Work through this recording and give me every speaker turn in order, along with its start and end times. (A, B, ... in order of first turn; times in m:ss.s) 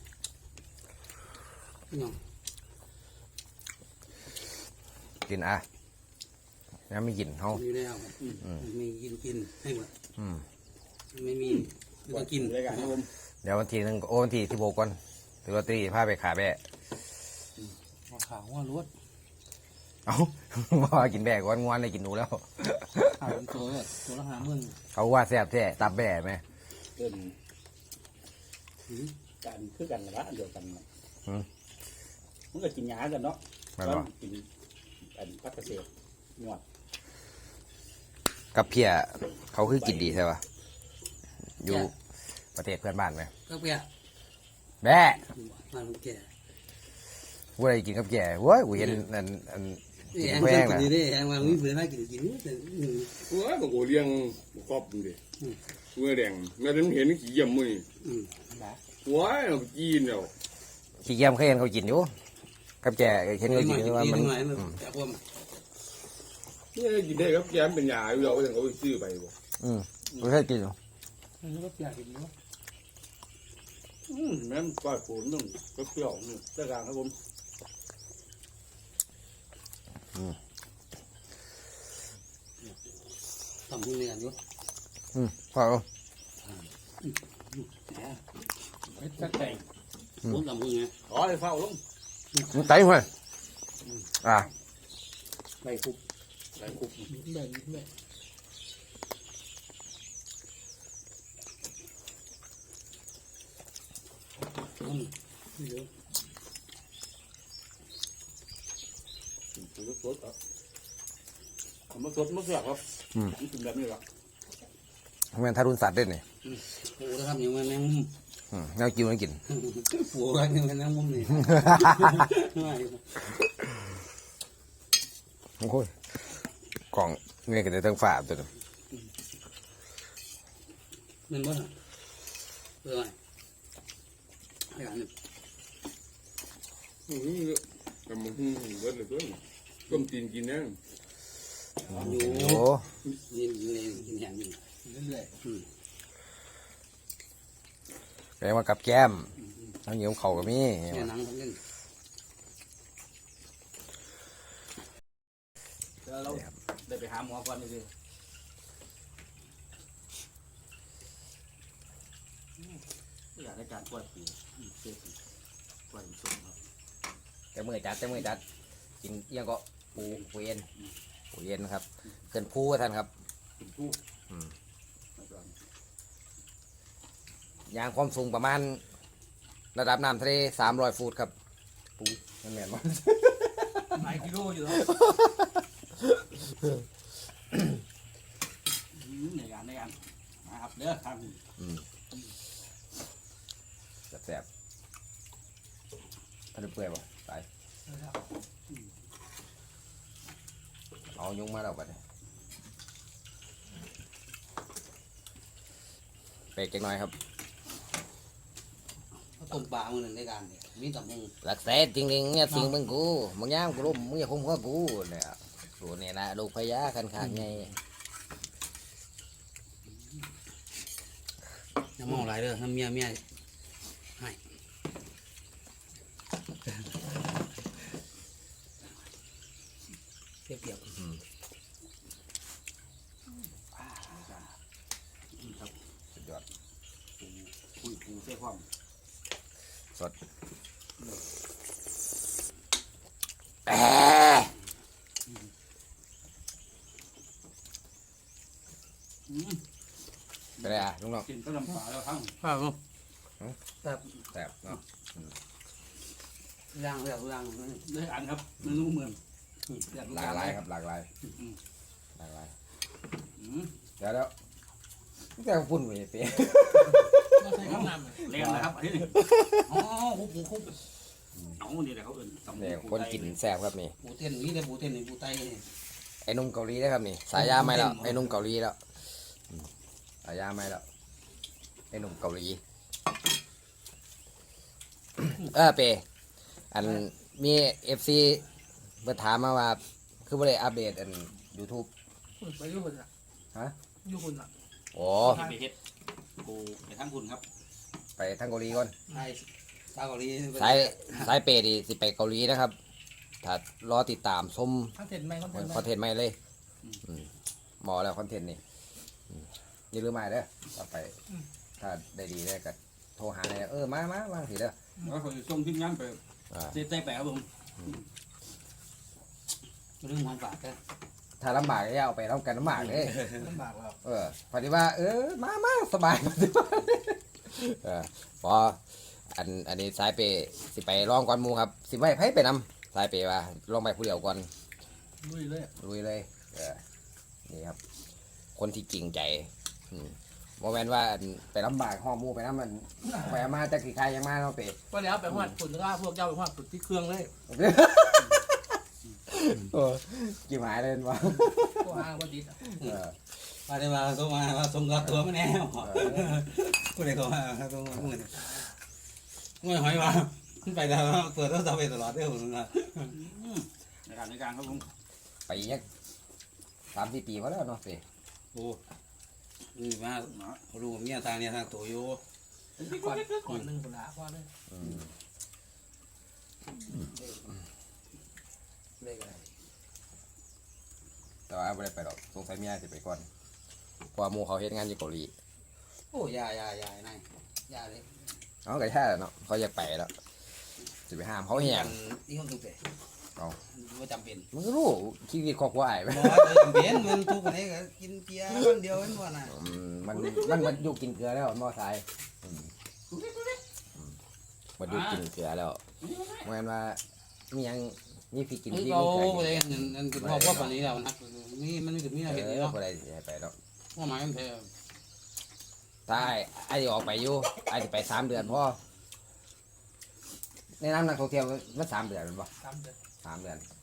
0:01.9-0:02.2 A
0:05.3-0:05.6 B
0:06.9-0:07.6 B
0:07.5-0:09.9 A
0:10.2-0:10.4 B
0:11.1-0:13.0 A
0:12.1-0:13.1 C
0:13.4-0:16.6 B
0:18.1-0:18.9 D
0:20.0-0:23.4 B
0:23.2-0:24.8 D
0:24.9-0:26.4 B
0:27.0-0:27.3 C
0:29.4-0:30.8 C
0:32.5-0:34.5 C
0:33.8-0:34.0 B
0:35.1-0:36.6 C
0:38.5-0:40.4 B
0:39.7-0:40.2 C
0:41.6-0:41.9 B
0:42.5-0:43.3 B
0:43.5-0:43.9 A
0:44.8-0:45.2 B
0:45.5-0:46.3 A
0:47.6-0:50.9 B
0:50.1-0:53.2 A
0:53.2-0:55.2 E
0:55.9-0:57.8 E
0:58.0-0:58.5 A
0:59.0-1:00.3 E
1:01.0-1:02.1 B
1:02.8-1:04.7 B
1:03.5-1:05.2 A
1:06.7-1:09.3 E
1:09.6-1:10.8 B
1:11.4-1:12.3 D
1:14.1-1:17.1 C
1:23.7-1:24.4 A
1:25.1-1:25.8 B
1:29.0-1:29.6 D
1:29.0-1:29.6 C
1:30.2-1:30.9 A
1:31.1-1:31.8 C
1:32.5-1:33.1 B
1:34.2-1:34.5 B
1:35.6-1:35.9 C
1:36.6-1:37.1 C
1:37.1-1:37.8 D
1:44.8-1:45.9 A
1:49.6-1:50.3 C
1:51.9-1:54.0 C
1:55.3-1:56.2 B
1:56.5-1:58.1 A
1:58.5-1:59.4 B
1:59.5-2:03.2 A
2:01.5-2:02.2 B
2:05.6-2:06.0 B
2:06.9-2:08.5 B
2:11.3-2:11.7 A
2:12.8-2:13.2 A
2:14.7-2:15.1 A
2:17.1-2:20.8 E
2:21.8-2:24.6 A
2:21.9-2:22.8 B
2:24.8-2:25.3 D
2:28.4-2:31.1 B
2:30.9-2:31.6 A
2:36.0-2:37.9 C
2:43.4-2:45.1 C
2:45.9-2:46.6 C
2:47.5-2:48.4 B
2:49.0-2:50.7 B
2:51.3-2:53.1 B
2:53.6-2:54.0 C
2:55.2-2:55.5 C
2:57.7-2:58.8 B
2:59.7-3:01.3 B
3:02.0-3:04.2 B
3:04.0-3:04.8 D
3:04.3-3:04.7 C
3:04.7-3:05.5 B
3:08.9-3:11.4 C
3:11.6-3:11.8 B
3:14.1-3:14.4 B
3:16.5-3:17.4 B
3:17.9-3:18.2 D
3:21.2-3:22.0 B
3:26.6-3:27.1 B
3:29.4-3:31.3 A
3:31.4-3:37.7 B
3:42.0-3:43.2 A
3:50.5-3:50.9 A
3:53.8-3:54.5 C
3:55.4-3:55.7 C
3:56.1-3:56.4 B
3:57.2-3:58.6 C
4:03.6-4:04.5 B
4:09.3-4:09.6 C
4:10.6-4:12.4 C
4:10.6-4:11.3 B
4:12.4-4:12.7 D
4:14.3-4:15.3 B
4:16.7-4:17.9 A
4:17.8-4:19.2 C
4:19.7-4:20.6 C
4:20.1-4:21.1 B
4:22.2-4:22.5 B
4:23.4-4:23.7 C
4:24.0-4:24.3 B
4:25.4-4:27.6 B
4:27.3-4:28.3 D
4:27.6-4:29.2 C
4:29.7-4:30.7 A
4:31.6-4:33.3 C
4:32.6-4:33.9 B
4:34.0-4:35.6 A
4:36.2-4:38.8 B
4:37.4-4:38.1 C
4:40.2-4:40.8 B
4:41.9-4:42.6 B
4:45.2-4:46.0 B
4:46.7-4:48.4 B
4:49.0-4:51.9 B
4:52.4-4:53.1 D
4:54.0-4:54.5 D
4:54.9-4:55.4 B
4:55.2-4:55.7 C
4:55.3-4:55.6 D
4:56.4-4:57.4 C
4:58.2-4:58.9 B
4:59.1-5:01.3 A
5:00.6-5:02.8 B
5:03.4-5:04.9 B
5:05.0-5:05.9 D
5:05.5-5:06.4 B
5:07.8-5:08.6 B
5:09.9-5:11.1 B
5:11.8-5:14.8 B
5:15.0-5:18.0 C
5:16.5-5:16.8 B
5:20.0-5:20.8 A
5:21.4-5:23.2 B
5:23.2-5:24.0 D
5:24.0-5:34.5 B
5:35.2-5:35.7 D
5:35.8-5:36.8 B
5:37.5-5:37.8 B
5:38.6-5:44.8 B
5:44.9-5:47.3 D
5:47.5-5:48.5 B
5:49.3-5:52.0 B
5:51.6-5:52.7 D
5:52.8-5:53.1 B
5:53.6-5:58.6 A
5:56.0-5:56.2 B
5:59.6-6:03.2 A
6:03.1-6:04.9 C
6:05.5-6:05.8 B
6:06.9-6:08.0 B
6:09.7-6:12.2 A
6:10.3-6:10.6 C
6:12.8-6:13.5 C
6:12.8-6:14.5 D
6:14.7-6:15.0 B
6:16.9-6:17.5 A
6:19.0-6:19.4 A
6:21.5-6:23.2 B
6:24.1-6:25.3 B
6:26.1-6:28.2 A
6:28.6-6:30.1 B
6:31.1-6:31.9 B
6:31.5-6:32.8 A
6:33.7-6:34.5 A
6:34.5-6:37.2 B
6:36.1-6:39.6 A
6:39.5-6:42.7 B
6:44.8-6:45.8 B
6:46.4-6:47.0 B
6:47.5-6:50.8 B
6:48.7-6:52.8 A
6:52.3-6:53.5 B
6:53.9-6:54.7 A
6:56.1-6:58.8 B
7:00.8-7:02.5 B
7:02.6-7:02.9 D
7:03.2-7:03.6 B